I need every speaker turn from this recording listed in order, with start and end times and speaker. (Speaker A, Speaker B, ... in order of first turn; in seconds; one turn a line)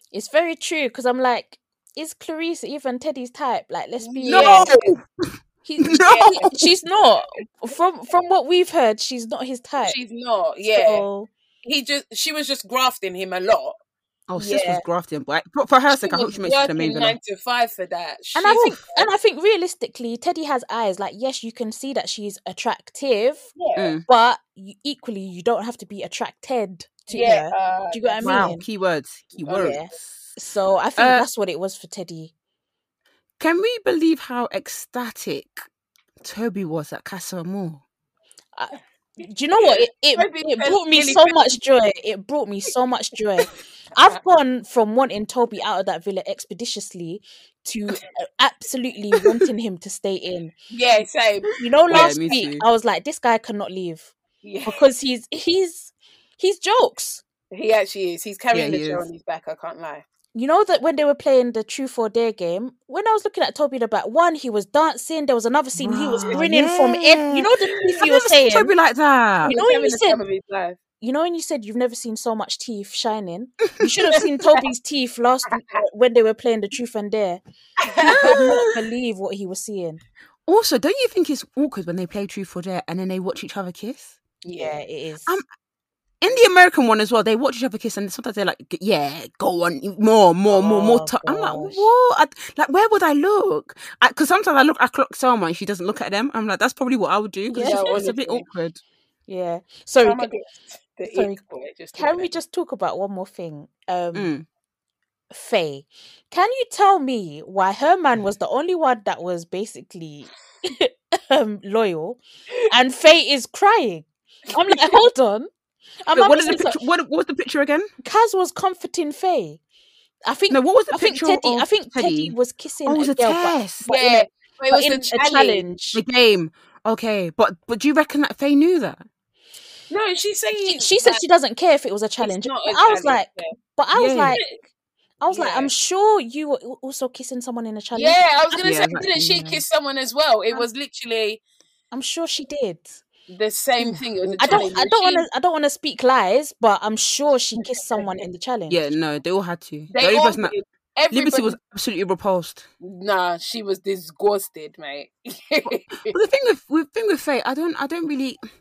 Speaker A: 0.1-4.7
Speaker B: 4.0-4.9
Speaker C: 4.3-6.7
Speaker A: 5.6-9.9
Speaker B: 6.0-6.5
Speaker B: 9.8-11.1
Speaker A: 10.7-11.3
Speaker B: 11.6-13.8
Speaker C: 14.3-17.2
Speaker A: 14.4-14.8
Speaker B: 15.9-19.1
Speaker A: 18.3-23.5
Speaker B: 23.6-23.9
Speaker C: 23.8-24.0
Speaker A: 24.1-28.6
Speaker B: 27.1-28.5
Speaker C: 28.2-30.3
Speaker B: 29.4-29.8
Speaker A: 29.5-32.3
Speaker C: 31.0-31.2
Speaker C: 33.4-35.6
Speaker C: 36.2-37.8
Speaker A: 38.5-50.5
Speaker B: 40.1-41.6
Speaker B: 50.7-52.3
Speaker A: 51.6-54.1
Speaker C: 51.9-52.6
Speaker B: 54.4-54.9
Speaker A: 54.6-57.2
Speaker B: 57.5-60.0
Speaker C: 58.5-59.0
Speaker A: 60.3-68.7
Speaker C: 65.8-69.5
Speaker B: 69.4-70.8
Speaker A: 69.4-70.2
Speaker A: 71.0-77.4
Speaker B: 77.8-78.6
Speaker A: 78.0-80.0
Speaker C: 78.1-78.7
Speaker C: 80.5-84.1
Speaker B: 84.4-84.8
Speaker A: 84.5-85.4
Speaker C: 86.2-98.8
Speaker A: 90.5-91.9
Speaker A: 97.5-97.9
Speaker B: 97.6-98.4
Speaker A: 99.3-100.3
Speaker B: 100.0-102.3
Speaker A: 101.1-101.4
Speaker A: 102.0-104.3
Speaker C: 104.1-104.4
Speaker A: 105.3-115.5
Speaker B: 114.6-115.0
Speaker A: 116.0-116.8
Speaker C: 116.1-117.9
Speaker A: 118.0-119.6
Speaker A: 120.3-126.0
Speaker C: 120.5-122.3
Speaker C: 122.9-123.8
Speaker B: 123.9-125.6
Speaker C: 125.9-129.1
Speaker B: 129.9-131.2
Speaker A: 130.6-134.5
Speaker B: 132.2-133.6
Speaker C: 133.9-134.4
Speaker B: 134.3-134.6
Speaker A: 135.2-138.7
Speaker B: 135.3-135.7
Speaker B: 137.9-141.4
Speaker C: 138.6-139.6
Speaker A: 141.9-143.0
Speaker B: 143.3-145.3
Speaker A: 143.9-148.9
Speaker C: 144.2-144.7
Speaker B: 147.6-148.1
Speaker C: 148.7-150.6
Speaker B: 149.9-151.6
Speaker C: 151.1-152.7
Speaker B: 152.8-156.1
Speaker C: 155.6-158.4